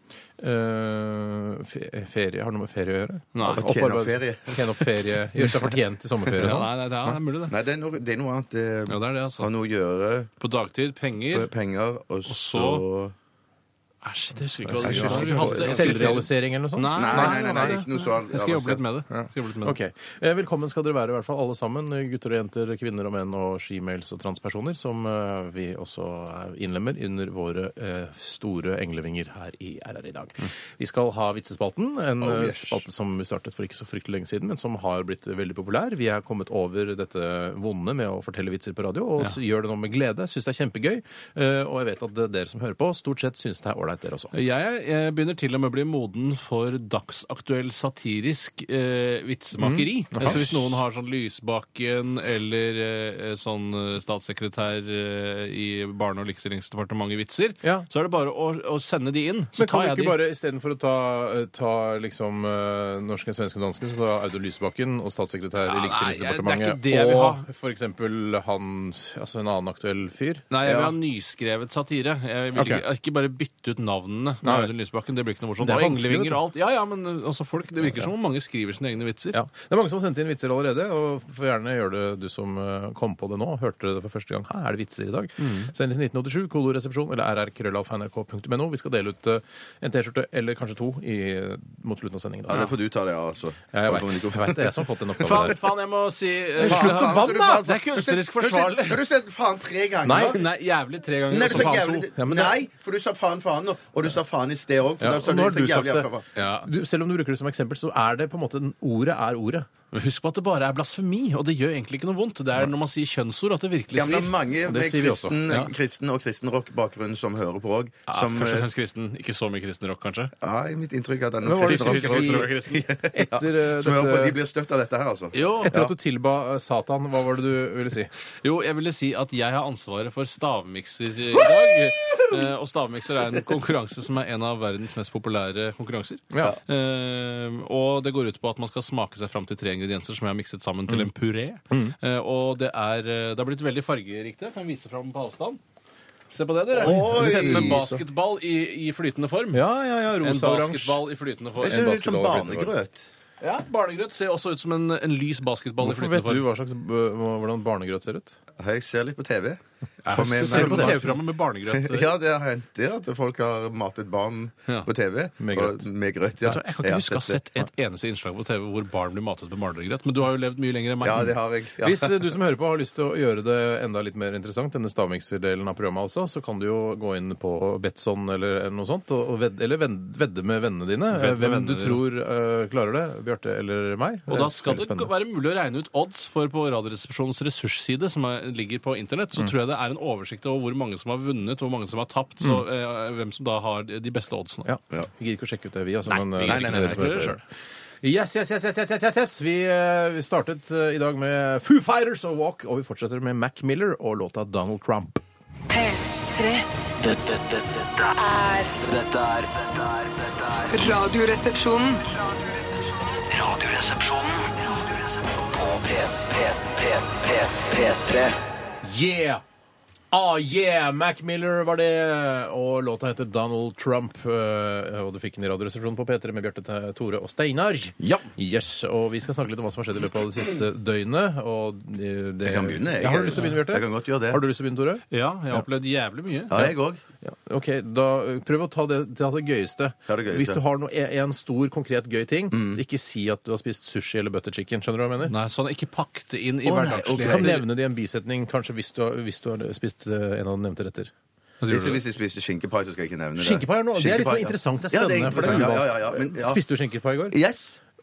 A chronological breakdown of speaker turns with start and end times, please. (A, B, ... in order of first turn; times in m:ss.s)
0:00.4-0:07.1 A
0:03.3-0:03.7 B
0:03.4-0:04.8 C
0:06.3-0:07.6 B
0:07.5-0:10.3 C
0:08.9-0:09.5 B
0:10.4-0:11.5 B
0:11.3-0:13.1 C
0:12.3-0:12.8 B
0:14.0-0:19.8 B
0:14.7-0:17.8 A
0:14.8-0:16.3 C
0:16.9-0:18.8 C
0:19.1-0:44.3 A
0:32.2-0:32.8 C
0:44.3-1:00.2 B
0:49.6-0:50.7 A
0:59.6-1:10.4 A
1:05.6-1:07.4 B
1:10.5-1:19.4 B
1:10.6-1:11.0 C
1:12.6-1:12.8 A
1:14.4-1:14.7 A
1:15.6-1:16.4 A
1:19.3-1:32.7 A
1:25.4-1:25.7 B
1:32.5-1:35.5 C
1:33.7-1:35.6 A
1:35.2-1:39.0 B
1:36.6-1:37.7 A
1:36.6-1:40.4 C
1:40.0-1:40.4 A
1:40.1-1:42.1 B
1:41.3-1:46.2 C
1:42.2-1:42.6 A
1:45.0-1:46.1 A
1:46.4-1:46.7 B
1:46.6-1:49.7 A
1:49.9-1:54.3 B
1:53.9-1:58.7 C
1:54.6-1:55.4 A
1:58.1-2:00.3 B
2:00.4-2:05.9 C
2:01.4-2:04.4 A
2:01.6-2:02.8 B
2:05.3-2:05.8 B
2:05.6-2:08.1 A
2:08.4-2:25.6 B
2:21.7-2:22.0 A
2:26.3-2:29.6 B
2:26.7-2:27.9 C
2:26.8-2:28.0 A
2:29.5-2:31.0 A
2:30.2-2:31.9 B
2:31.6-2:33.1 C
2:31.6-2:32.7 A
2:33.4-2:36.4 B
2:35.8-2:38.4 A
2:38.6-2:47.4 C
2:40.0-2:42.1 B
2:40.2-2:41.1 A
2:45.4-2:45.9 A
2:46.4-2:51.3 B
2:51.0-2:52.2 C
2:51.8-3:05.1 A
3:01.1-3:02.0 B
3:04.3-3:14.7 B
3:14.6-3:17.4 A
3:16.1-3:17.4 B
3:16.4-3:17.3 C
3:18.0-3:25.2 A
3:25.7-3:26.7 D
3:27.0-3:28.2 E
3:28.2-3:28.7 D
3:28.8-3:31.0 E
3:30.7-3:32.0 D
3:33.3-3:38.4 E
3:38.8-3:39.4 A
3:40.1-3:55.6 A
3:48.0-3:48.3 C
3:52.4-3:54.4 C
3:55.1-3:56.6 B
3:56.5-3:57.0 C
3:56.5-4:05.3 A
4:00.1-4:00.6 C
4:02.5-4:02.8 C
4:05.2-4:07.6 B
4:06.6-4:07.6 C
4:07.2-4:11.1 A
4:11.6-4:12.0 B
4:11.7-4:16.6 C
4:13.4-4:17.4 A
4:17.3-4:17.8 C